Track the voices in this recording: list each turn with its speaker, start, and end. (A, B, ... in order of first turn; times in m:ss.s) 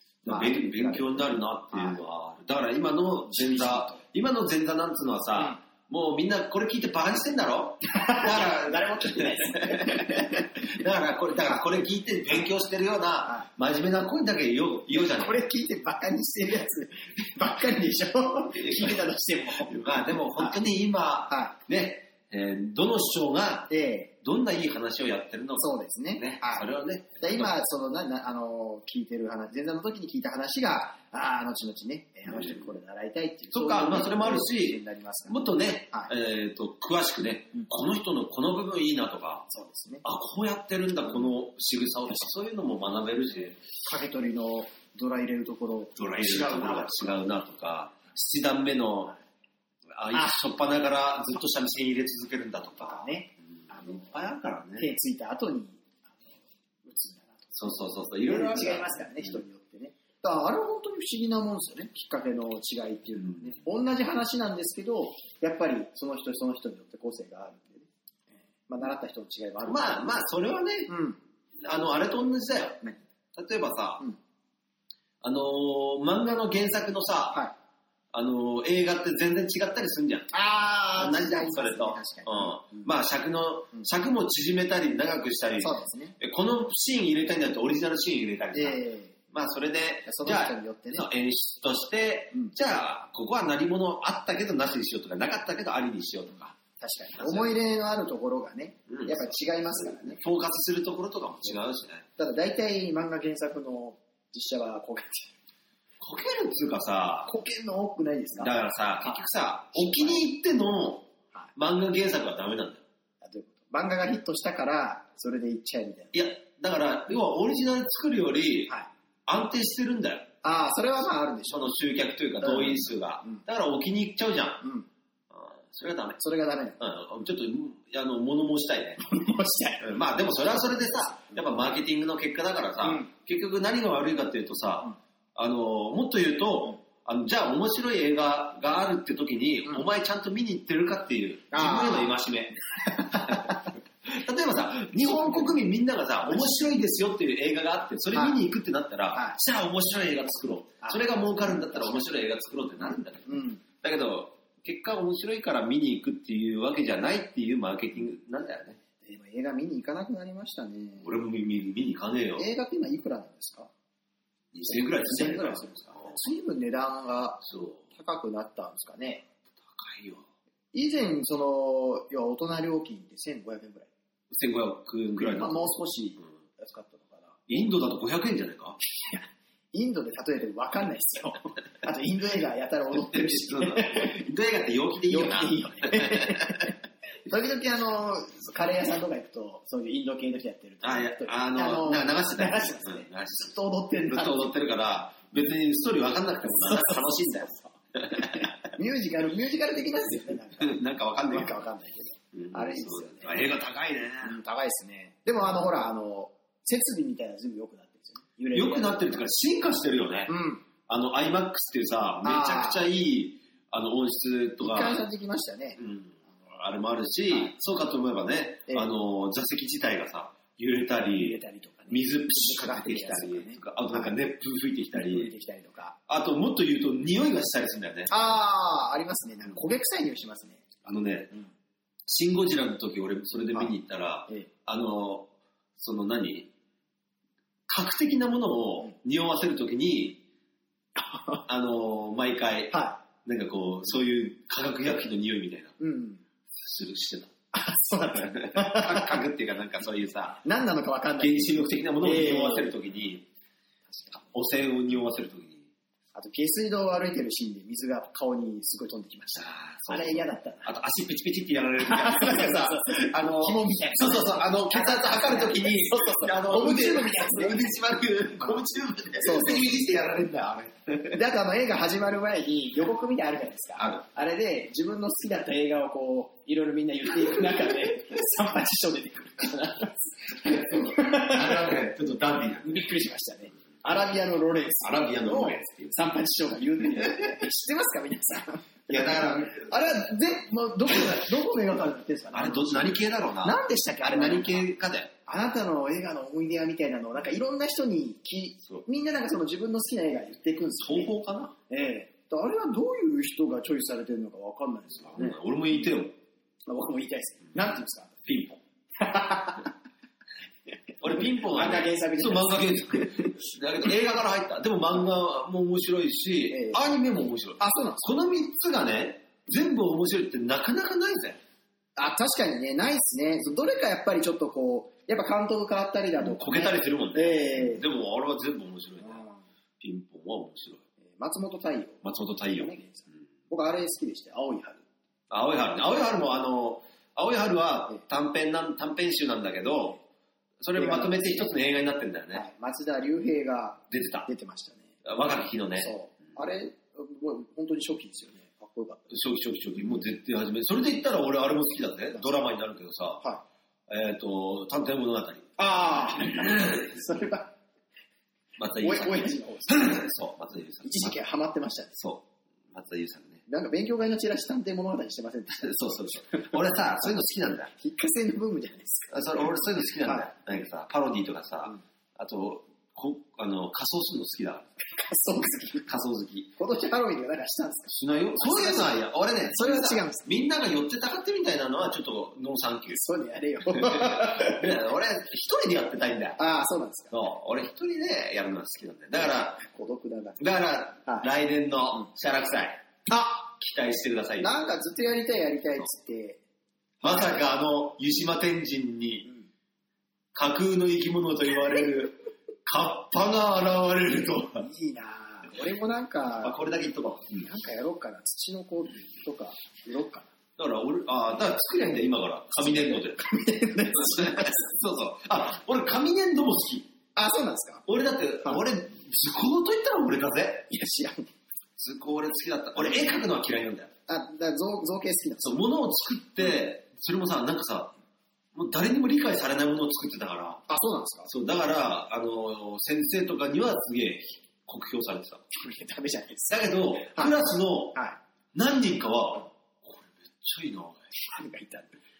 0:00.2-0:15.4 A
0:00.3-0:02.0 B
0:03.3-0:04.0 B
0:07.9-0:10.5 B
0:14.9-0:19.8 B
0:18.6-0:19.1 A
0:19.6-0:23.7 A
0:23.7-0:24.1 B
0:24.2-0:27.5 A
0:25.6-0:26.7 B
0:27.2-0:35.4 B
0:32.3-0:32.6 A
0:33.5-0:39.5 A
0:39.5-0:40.0 B
0:40.0-0:43.6 A
0:43.8-0:47.2 B
0:46.0-0:49.1 A
0:49.9-0:54.9 A
0:52.8-0:54.1 B
0:54.8-0:55.8 B
0:56.8-1:07.9 B
0:57.5-0:59.4 A
1:03.2-1:03.6 A
1:08.7-1:10.0 B
1:09.7-1:10.9 A
1:10.9-1:11.2 B
1:11.6-1:12.8 A
1:13.4-1:14.0 A
1:15.2-1:17.4 A
1:18.1-1:20.3 A
1:20.3-1:22.9 B
1:21.0-1:36.6 A
1:25.6-1:26.2 B
1:28.5-1:29.2 B
1:30.1-1:31.1 B
1:36.8-1:40.2 B
1:37.2-1:37.6 A
1:38.9-1:42.0 A
1:42.2-1:45.3 B
1:46.0-1:47.3 A
1:47.3-1:49.2 B
1:48.4-1:52.8 A
1:49.7-1:50.2 B
1:53.2-1:56.1 B
1:56.1-1:58.7 A
1:59.3-2:00.3 A
2:00.4-2:01.7 B
2:01.5-2:04.6 A
2:02.4-2:03.4 B
2:04.6-2:04.9 B
2:05.3-2:06.2 A
2:06.2-2:06.8 B
2:06.8-2:09.0 A
2:09.0-2:09.9 B
2:09.8-2:38.8 A
2:10.5-2:11.2 B
2:12.8-2:13.1 B
2:21.5-2:22.2 B
2:23.1-2:23.6 B
2:25.0-2:25.6 B
2:26.3-2:26.7 B
2:28.1-2:28.4 B
2:30.8-2:32.1 B
2:32.8-2:33.6 B
2:39.0-2:41.1 B
2:41.0-2:42.5 A
2:42.4-2:43.7 B
2:44.5-2:46.2 A
2:44.7-2:47.4 B
2:47.4-2:47.8 A
2:47.9-2:49.2 B
2:49.6-2:50.2 A
2:50.7-2:53.9 B
2:54.3-2:55.7 A
2:55.2-2:57.4 B
2:57.5-2:58.8 A
2:59.1-3:04.2 B
3:02.9-3:06.6 A
3:05.1-3:14.5 B
3:10.8-3:13.5 A
3:14.1-3:18.5 A
3:16.6-3:23.4 B
3:20.6-3:21.5 A
3:22.3-3:24.4 A
3:24.2-3:29.3 B
3:28.5-3:30.3 A
3:30.3-3:30.6 B
3:30.9-3:35.0 A
3:32.2-3:32.8 B
3:34.6-3:35.8 B
3:35.8-3:45.3 A
3:41.2-3:44.2 B
3:44.9-3:46.0 B
3:46.1-3:48.1 A
3:48.1-3:50.6 B
3:50.8-3:51.3 A
3:52.1-3:56.5 A
3:57.7-4:00.2 A
4:01.0-4:01.4 B
4:01.5-4:05.8 A
4:02.7-4:03.0 B
4:05.8-4:06.2 B
4:06.5-4:07.3 A
4:07.5-4:09.2 B
4:08.1-4:10.4 A
4:10.4-4:12.7 B
4:11.2-4:13.3 A
4:13.9-4:14.2 B
4:14.3-4:15.7 A
4:16.2-4:20.7 B
4:19.4-4:31.2 A
4:21.8-4:27.7 B
4:29.2-4:29.7 B
4:31.1-4:41.7 B
4:33.8-4:34.0 A
4:40.4-4:42.8 A
4:42.6-4:54.7 B
4:44.8-4:45.9 A
4:48.9-4:49.7 A
4:50.9-4:51.4 A
4:52.3-4:55.1 A
4:55.3-5:01.1 B
5:00.8-5:01.6 A
5:01.7-5:05.4 B
5:05.0-5:06.2 A
5:06.7-5:08.2 B
5:08.3-5:08.6 A
5:09.0-5:09.7 B
5:11.0-5:21.4 A
5:11.1-5:13.5 B
5:16.5-5:16.8 B
5:17.6-5:18.1 B
5:22.0-5:27.8 B
5:26.2-5:29.2 A
5:29.0-5:29.4 B
5:29.8-5:30.8 A
5:31.1-5:34.8 B
5:32.0-5:32.7 A
5:35.3-5:40.0 A
5:40.6-5:42.4 A
5:40.8-5:41.4 B
5:42.3-5:44.9 B
5:43.9-5:44.3 A
5:45.0-5:45.9 A
5:45.8-5:49.1 B
5:49.1-5:53.2 A
5:53.9-5:56.9 A
5:55.6-5:57.5 B
5:58.6-6:01.2 A
5:58.8-6:00.0 B
6:00.8-6:02.0 B
6:02.0-6:03.4 A
6:03.5-6:06.5 B
6:05.5-6:07.7 A
6:07.8-6:09.5 B
6:09.1-6:14.7 A
6:14.8-6:15.9 B
6:15.9-6:16.5 A
6:16.6-6:19.0 B
6:17.9-6:23.0 A
6:19.5-6:20.3 B
6:22.9-6:24.7 B
6:23.7-6:26.4 A
6:26.4-6:27.1 B
6:27.1-6:29.6 A
6:29.5-6:30.4 B
6:30.4-6:32.8 A
6:33.1-6:33.5 B
6:33.5-6:34.5 A
6:34.4-6:36.4 B
6:37.0-6:37.4 B
6:37.0-6:39.3 A
6:40.3-6:44.6 A
6:44.6-6:46.6 B
6:46.4-6:47.5 A
6:47.4-6:50.3 B
6:50.6-6:53.2 A
6:52.6-6:54.7 B
6:54.0-6:56.9 A
6:57.2-6:57.8 B
6:57.9-7:00.7 A
7:00.7-7:01.3 B
7:01.8-7:03.9 A
7:04.1-7:05.6 B
7:05.4-7:07.9 A
7:08.5-7:10.6 A
7:10.7-7:11.3 B
7:11.3-7:15.4 A
7:15.5-7:17.3 B
7:16.5-7:17.9 A
7:17.9-7:18.2 B
7:18.6-7:21.0 A
7:21.2-7:22.0 B